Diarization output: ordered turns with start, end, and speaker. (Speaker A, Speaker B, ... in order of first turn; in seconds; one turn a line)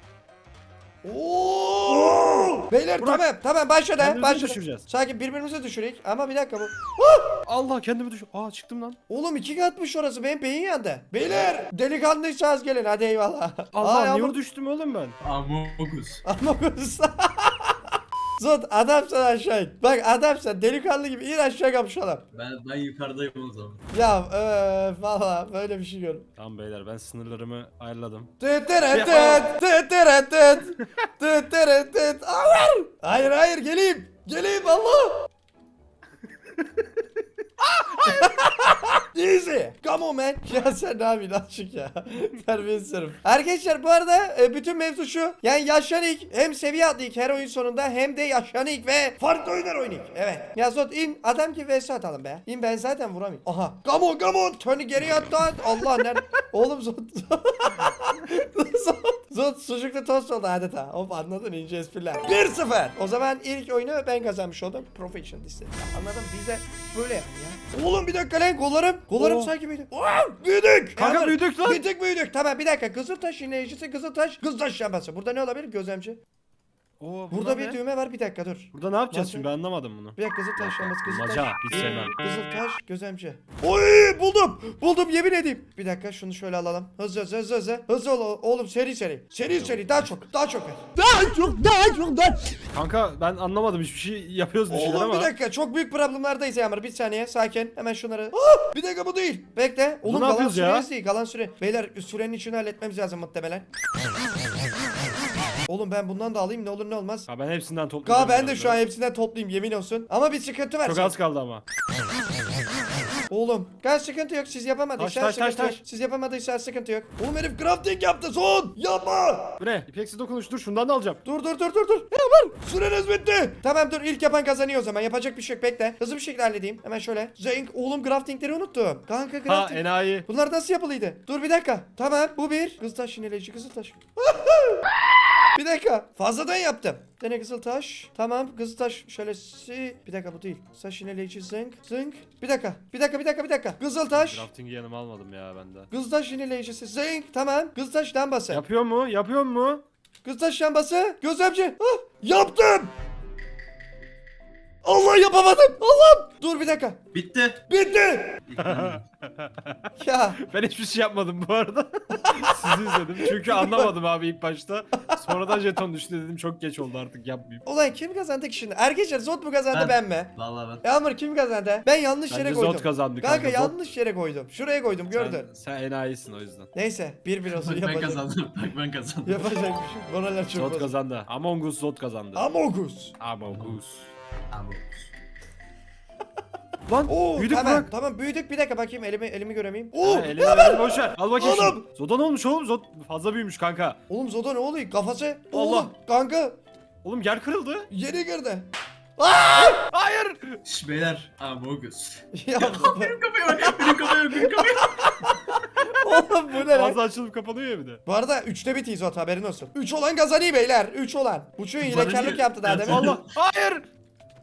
Speaker A: 1.0-7.3
Speaker B: 3.0-3.2
Speaker B: 4.0-4.8
Speaker B: 7.5-9.0
Speaker A: 9.1-14.4
Speaker B: 13.7-15.2
Speaker C: 15.2-16.2
Speaker A: 16.2-17.8
Speaker A: 18.4-22.2
Speaker C: 22.3-23.8
Speaker A: 23.9-26.2
Speaker B: 26.4-28.3
Speaker A: 28.4-35.3
Speaker B: 28.9-29.5
Speaker B: 37.6-38.4
Speaker A: 38.0-76.2
Speaker B: 69.2-69.5
Speaker B: 71.0-71.8
Speaker B: 77.0-77.8
Speaker A: 77.3-79.5
Speaker B: 78.7-82.1
Speaker A: 80.2-92.6
Speaker B: 89.5-90.1
Speaker B: 92.7-95.3
Speaker A: 94.7-103.7
Speaker B: 100.0-100.9
Speaker A: 105.7-107.3
Speaker B: 107.3-108.8
Speaker A: 108.0-111.2
Speaker B: 110.8-111.6
Speaker A: 113.3-119.6
Speaker B: 115.0-115.8
Speaker B: 119.6-121.2
Speaker A: 121.2-134.8
Speaker B: 129.4-130.2
Speaker A: 135.5-144.5
Speaker B: 144.1-145.9
Speaker A: 145.9-148.6
Speaker B: 148.5-149.8
Speaker A: 150.2-152.9
Speaker A: 154.8-157.0
Speaker C: 157.1-157.6
Speaker A: 157.7-158.4
Speaker C: 158.5-159.0
Speaker B: 158.6-159.9
Speaker A: 160.0-160.4
Speaker B: 160.4-167.6
Speaker A: 162.2-163.9
Speaker A: 165.1-165.6
Speaker A: 167.6-175.5
Speaker C: 169.7-170.8
Speaker B: 172.3-173.8
Speaker B: 175.1-176.7
Speaker A: 176.7-178.2
Speaker C: 177.5-179.5
Speaker A: 179.2-180.9
Speaker B: 180.5-182.4
Speaker A: 182.3-183.1
Speaker B: 183.2-184.1
Speaker C: 183.5-183.8
Speaker C: 184.5-185.1
Speaker B: 186.9-187.9
Speaker A: 187.1-191.8
Speaker B: 190.0-194.0
Speaker A: 194.1-196.6
Speaker B: 195.5-195.9
Speaker B: 197.0-197.9
Speaker A: 197.9-198.7
Speaker A: 199.2-199.9
Speaker B: 199.9-200.6
Speaker C: 200.6-205.6
Speaker A: 202.3-207.0
Speaker B: 206.1-208.0
Speaker A: 208.1-213.2
Speaker C: 211.8-213.3
Speaker B: 212.8-213.8